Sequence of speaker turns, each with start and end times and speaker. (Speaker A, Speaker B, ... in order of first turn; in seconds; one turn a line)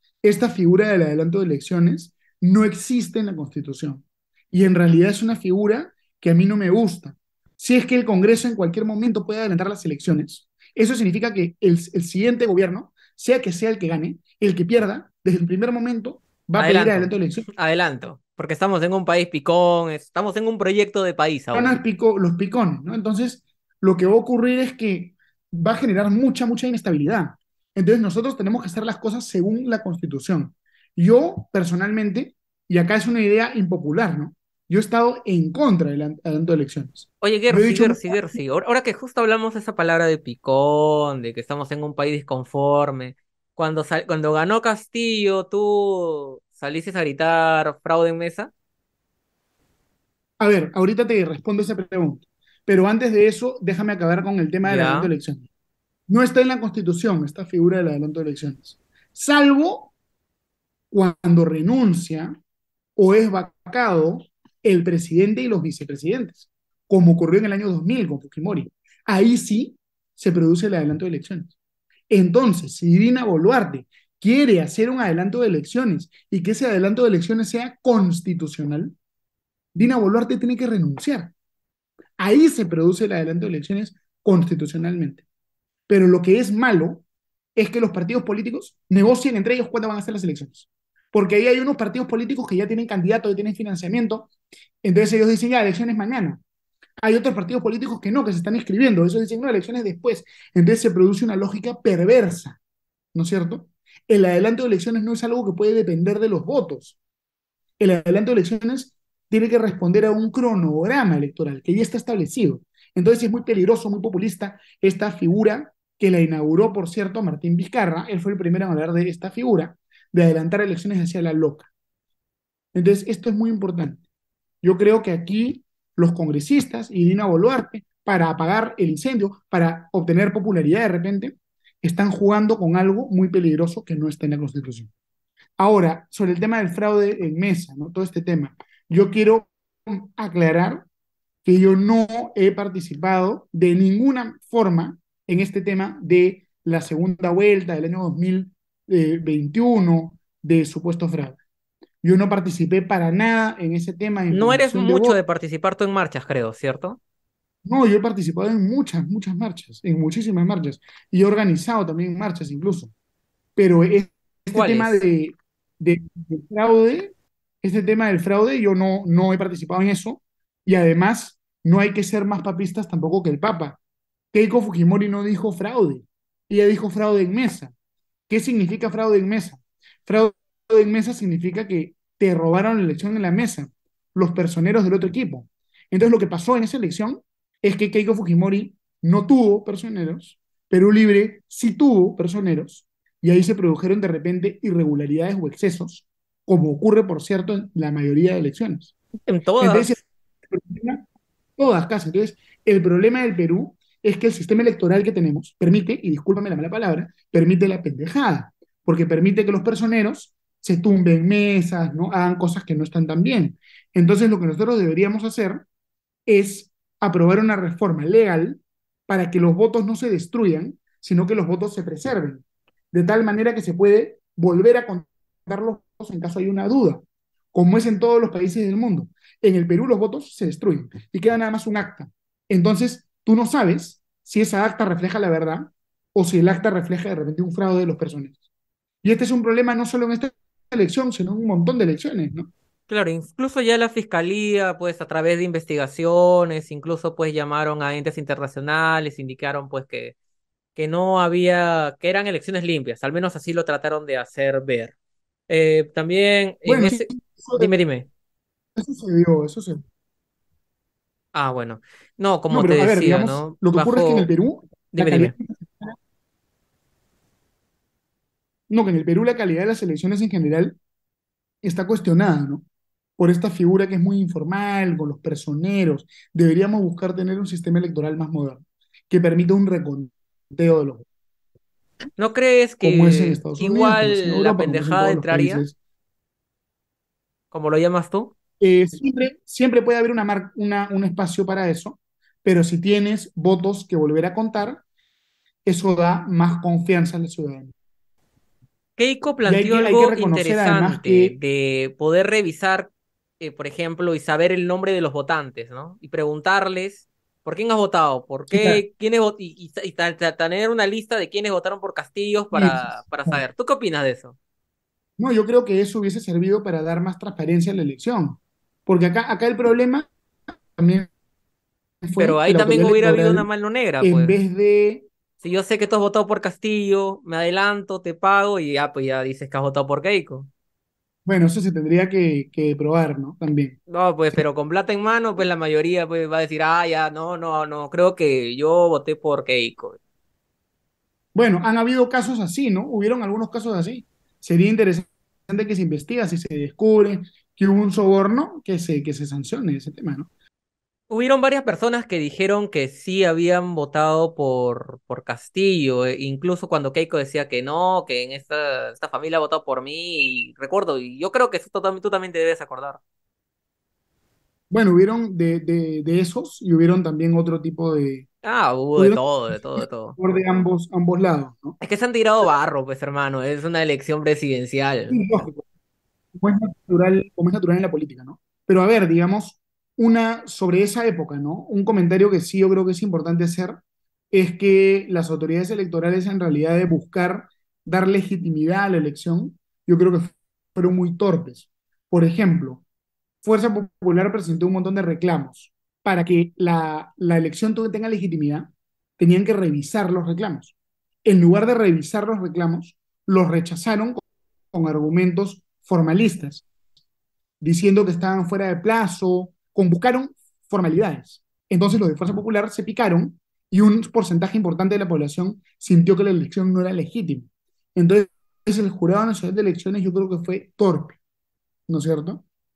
Speaker A: 0.2-17.4
Speaker B: 16.6-21.8
Speaker A: 21.5-38.4
Speaker B: 37.2-48.5
Speaker A: 50.4-55.5
Speaker B: 54.6-55.1
Speaker A: 56.1-59.9
Speaker A: 60.9-62.4
Speaker A: 63.0-71.5
Speaker A: 72.1-78.9
Speaker A: 79.7-81.3
Speaker A: 82.2-85.2
Speaker A: 85.9-87.0
Speaker A: 87.5-94.3
Speaker A: 94.8-96.4
Speaker A: 97.0-102.6
Speaker A: 103.1-107.0
Speaker A: 107.8-121.7
Speaker A: 122.7-124.0
Speaker A: 124.6-134.9
Speaker A: 135.6-140.8
Speaker A: 141.4-151.4
Speaker A: 152.0-155.2
Speaker B: 154.3-157.0
Speaker A: 157.6-162.9
Speaker A: 163.6-173.8
Speaker B: 164.5-165.0
Speaker A: 174.3-177.7
Speaker A: 178.3-198.9
Speaker B: 199.3-199.9
Speaker A: 199.6-201.1
Speaker A: 201.6-215.6
Speaker A: 216.3-238.3
Speaker A: 239.0-242.5
Speaker B: 242.9-250.1
Speaker B: 250.7-254.9
Speaker B: 255.5-258.1
Speaker A: 256.6-257.7
Speaker A: 258.8-259.8
Speaker B: 261.3-264.3
Speaker A: 262.5-266.0
Speaker B: 264.9-265.3
Speaker A: 268.7-270.8
Speaker A: 271.6-272.6
Speaker A: 273.2-281.1
Speaker B: 282.2-285.6
Speaker A: 282.8-285.8
Speaker B: 287.5-288.3
Speaker A: 288.6-294.8
Speaker A: 295.6-297.7
Speaker B: 299.0-314.4
Speaker A: 299.4-301.4
Speaker A: 308.5-308.8
Speaker A: 312.5-313.4
Speaker A: 315.2-320.1
Speaker A: 320.8-321.1
Speaker A: 322.0-323.5
Speaker B: 322.2-324.4
Speaker A: 324.0-325.1
Speaker B: 325.4-330.5
Speaker A: 331.2-333.8
Speaker B: 333.9-340.0
Speaker A: 341.3-350.3
Speaker B: 351.1-363.0
Speaker A: 364.7-368.2
Speaker B: 368.4-370.2
Speaker A: 368.9-371.8
Speaker B: 371.8-375.2
Speaker A: 375.1-375.6
Speaker A: 376.4-383.8
Speaker A: 384.3-392.8
Speaker A: 393.4-400.7
Speaker A: 401.2-404.2
Speaker A: 404.7-406.6
Speaker A: 407.6-421.2
Speaker A: 421.9-422.4